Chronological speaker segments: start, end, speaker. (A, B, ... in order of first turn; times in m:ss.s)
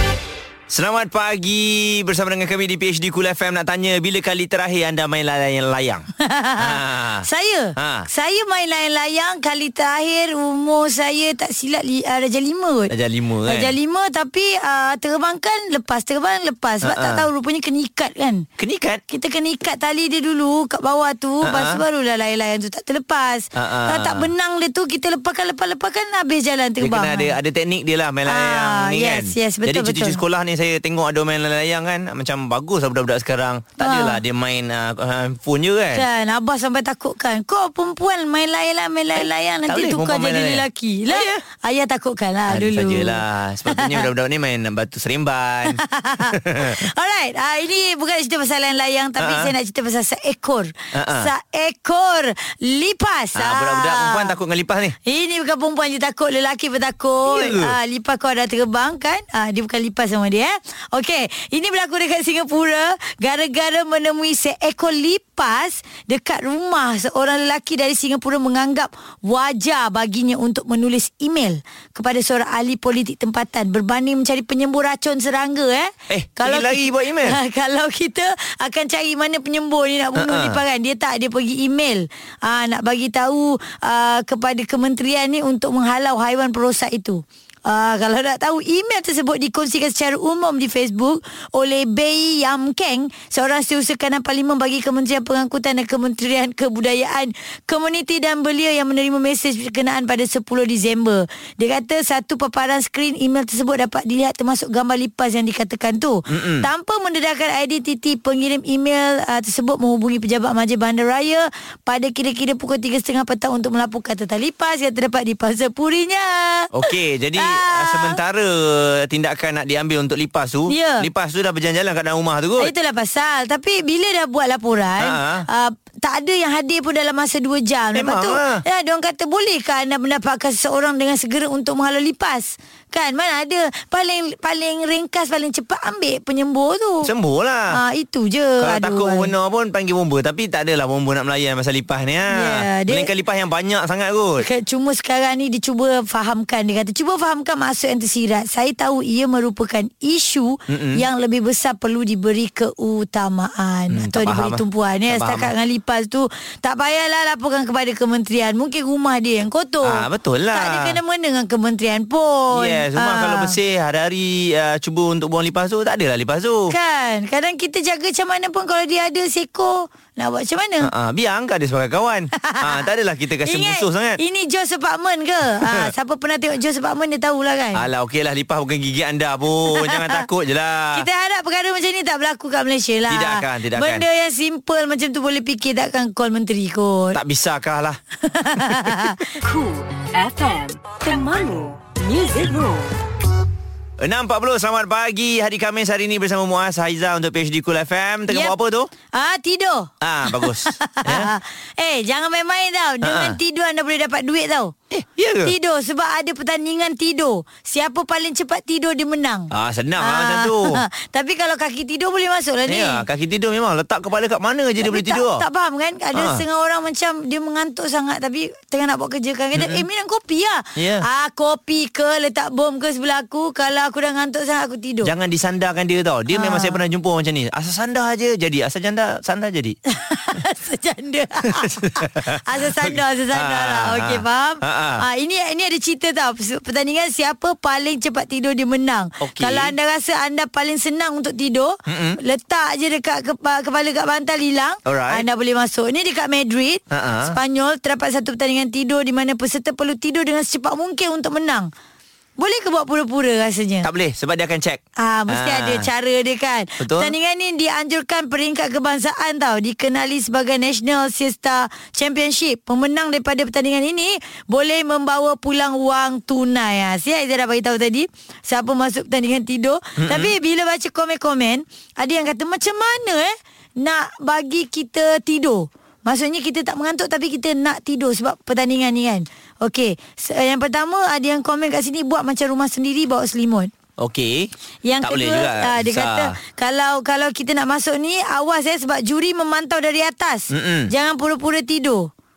0:00.7-0:08.1 A
0:06.2-0:12.9 B
0:12.9-0:13.7 A
0:13.5-0:18.5 B
0:16.8-0:17.2 A
0:18.6-0:19.0 A
0:19.1-0:27.3 B
0:21.4-0:21.8 A
0:23.6-0:24.3 A
0:26.8-0:36.0 A
0:28.3-0:30.2 B
0:33.8-0:34.2 B
0:35.9-0:44.1 B
0:39.2-0:41.4 A
0:42.5-0:46.8 A
0:45.7-0:54.3 B
0:49.2-0:49.5 A
0:50.9-0:51.3 A
0:53.4-0:55.0 A
0:55.0-1:58.2 B
0:57.2-0:57.8 A
1:16.1-1:17.4 A
1:20.2-1:20.6 A
1:46.3-1:46.7 A
1:56.7-2:02.7 A
2:00.7-2:01.1 B
2:02.6-2:17.1 B
2:05.0-2:05.4 A
2:07.9-2:08.6 A
2:17.0-2:17.8 A
2:17.7-2:19.3 B
2:18.6-2:24.4 A
2:22.3-2:23.1 B
2:24.4-2:43.6 B
2:30.7-2:31.0 A
2:33.9-2:35.5 A
2:39.8-2:41.0 A
2:42.5-2:46.7 A
2:46.7-2:50.9 B
2:50.8-2:54.2 A
2:52.4-2:52.8 B
2:53.4-2:57.8 B
2:55.5-2:55.9 A
2:57.7-3:01.0 A
2:59.7-3:00.2 B
3:00.9-3:07.2 B
3:03.1-3:04.0 A
3:07.1-3:08.0 A
3:08.2-3:09.3 B
3:08.6-3:09.0 A
3:09.4-3:13.0 C
3:14.0-3:18.9 A
3:18.3-3:18.5 B
3:19.1-3:24.7 B
3:20.0-3:21.3 A
3:23.0-3:23.4 A
3:24.9-3:25.5 A
3:25.4-3:33.0 B
3:29.5-3:30.8 A
3:32.7-3:35.4 A
3:34.8-3:45.1 B
3:36.1-3:36.4 A
3:39.5-3:39.8 A
3:40.8-3:41.0 A
3:45.0-3:49.8 A
3:46.3-3:46.8 B
3:49.9-4:11.7 B
3:51.4-3:55.0 A
3:59.2-3:59.7 A
4:01.9-4:02.2 A
4:04.8-4:05.2 A
4:06.9-4:07.3 A
4:12.4-4:13.9 B
4:13.8-4:15.9 A
4:15.0-4:43.7 B
4:16.8-4:17.1 A
4:30.0-4:30.3 A
4:44.0-4:46.4 A
4:44.8-4:52.1 B
4:50.5-4:50.9 A